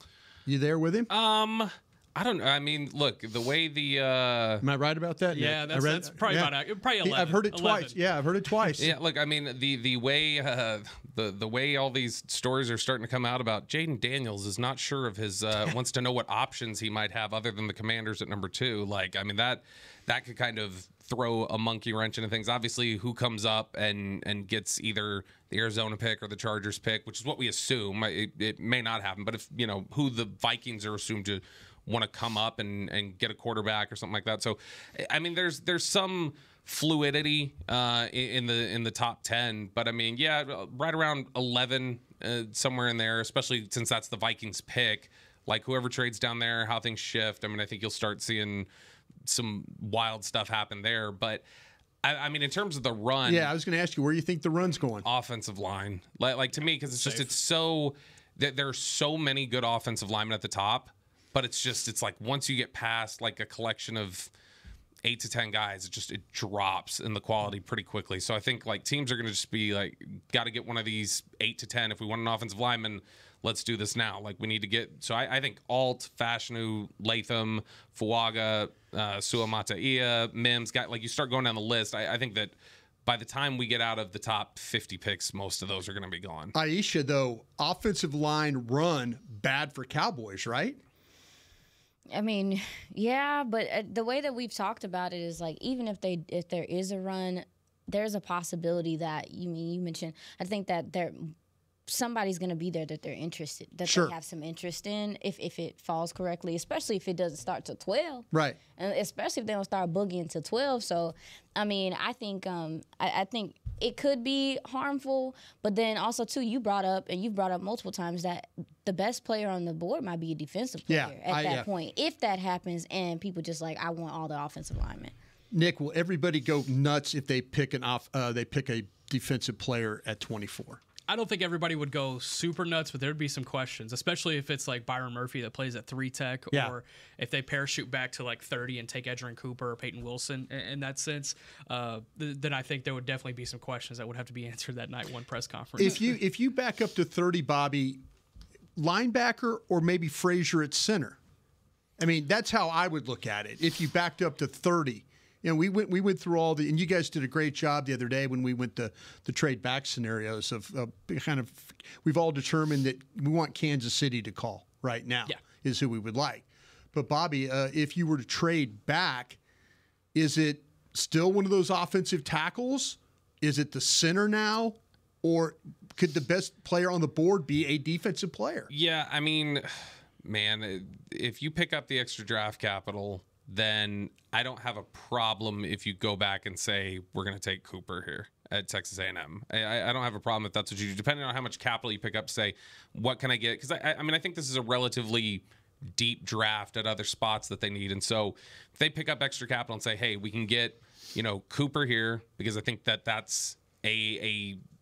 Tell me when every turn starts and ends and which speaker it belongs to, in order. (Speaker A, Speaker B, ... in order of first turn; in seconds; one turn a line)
Speaker A: 0.5-1.1
Speaker B: 1.1-4.6
Speaker A: 4.6-8.9
Speaker C: 5.3-7.9
Speaker B: 8.8-48.7
Speaker B: 49.2-51.4
Speaker B: 52.0-53.5
Speaker A: 53.2-55.0
Speaker B: 55.0-64.3
Speaker B: 65.0-82.5
Speaker B: 83.0-86.5
Speaker A: 86.5-90.8
Speaker D: 92.1-101.3
Speaker D: 101.9-125.1
Speaker A: 103.8-104.1
Speaker A: 108.3-108.6
Speaker A: 120.9-121.7
Speaker A: 125.5-130.8
Speaker C: 131.1-146.2
Speaker A: 145.8-148.0
Speaker A: 148.8-151.2
Speaker A: 152.0-169.4
Speaker A: 170.1-178.7
Speaker B: 178.7-204.6